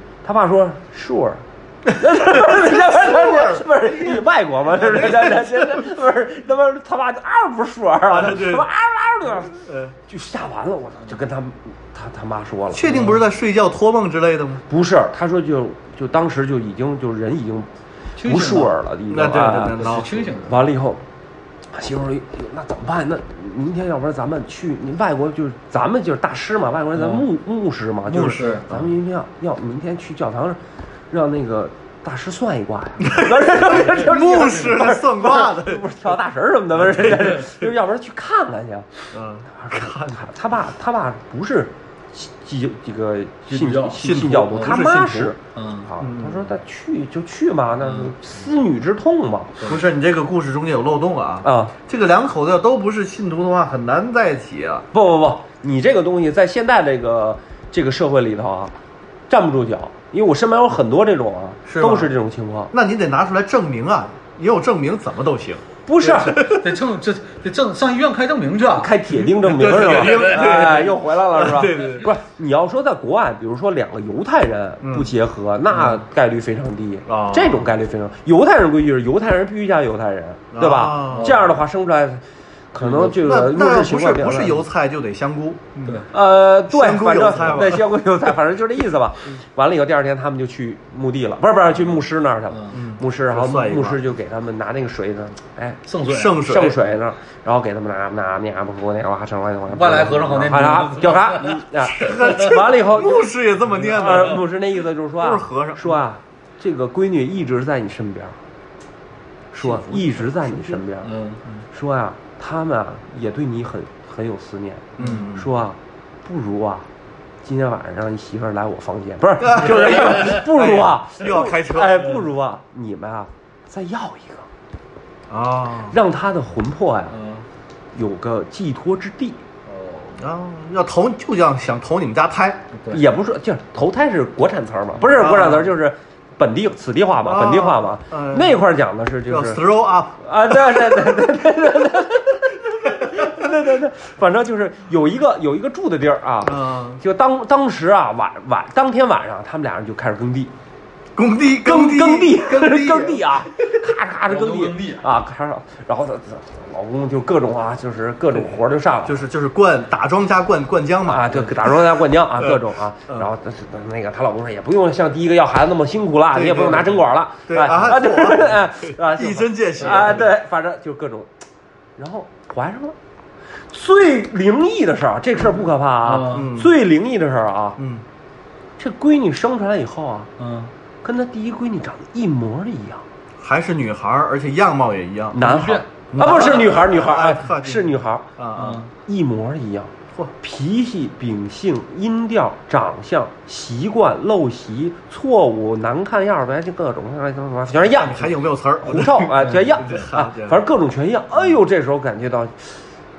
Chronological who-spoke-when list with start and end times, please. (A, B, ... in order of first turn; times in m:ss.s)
0:00.2-0:12.8 A
0:02.3-0:05.8 B
0:08.1-0:08.7 B
0:09.5-0:10.0 B
0:12.7-0:14.6 B
0:12.9-0:13.2 C
0:14.7-0:17.7 A
0:18.2-0:18.8 C
0:18.2-0:19.9 A
0:19.1-0:20.5 B
0:19.7-0:20.6 C
0:20.5-0:21.0 A
0:21.7-0:38.9 A
0:27.0-0:27.3 C
0:28.1-0:28.7 C
0:33.0-0:35.9 B
0:36.9-0:37.5 B
0:39.1-0:40.2 B
0:39.5-0:49.6 A
0:43.5-0:44.9 C
0:44.0-0:45.4 B
0:45.5-0:45.9 C
0:46.0-0:46.5 B
0:49.6-0:54.9 B
0:51.4-0:51.7 A
0:54.9-0:58.7 A
0:59.3-1:02.7 A
1:01.7-1:02.1 B
1:02.7-1:06.7 B
1:05.9-1:06.5 A
1:06.2-1:09.1 C
1:08.8-1:24.6 A
1:09.2-1:12.1 B
1:09.7-1:10.7 C
1:14.8-1:15.1 B
1:17.1-1:17.7 B
1:20.5-1:21.4 B
1:21.1-1:21.5 C
1:23.0-1:26.1 B
1:26.1-1:35.8 A
1:26.7-1:27.8 B
1:32.7-1:34.0 B
1:35.9-1:36.4 C
1:36.0-1:36.8 B
1:36.4-1:43.3 A
1:39.7-1:42.5 C
1:42.0-1:44.5 B
1:43.8-1:48.4 A
1:45.2-1:46.0 B
1:49.5-1:51.1 A
1:49.6-1:50.8 B
1:51.0-1:51.4 C
1:51.7-1:56.9 A
1:55.0-1:55.5 B
1:57.4-2:04.5 A
1:59.4-2:02.2 B
2:05.3-2:06.0 B
2:05.9-2:07.2 A
2:07.1-2:07.5 C
2:07.9-2:09.4 A
2:09.7-2:10.2 C
2:10.2-2:12.7 B
2:12.7-2:13.0 C
2:12.9-2:19.6 A
2:15.0-2:15.7 B
2:17.2-2:18.7 B
2:19.3-2:21.2 B
2:20.2-2:30.5 A
2:26.4-2:27.0 B
2:31.2-2:33.4 B
2:31.6-2:39.2 A
2:34.3-2:35.1 C
2:39.0-2:41.8 B
2:41.1-2:51.3 A
2:42.4-2:43.3 B
2:46.3-2:50.3 B
2:49.8-2:50.1 C
2:52.0-2:53.0 A
2:53.7-2:57.8 A
2:56.0-2:56.5 C
2:56.2-2:56.8 B
2:57.8-2:58.0 B
2:58.8-3:00.3 A
3:00.4-3:00.7 C
3:01.0-3:03.0 A
3:03.4-3:05.4 B
3:05.3-3:08.3 A
3:05.4-3:06.3 C
3:06.1-3:08.8 B
3:08.6-3:08.9 C
3:09.1-3:22.7 A
3:17.9-3:20.6 B
3:19.4-3:19.8 C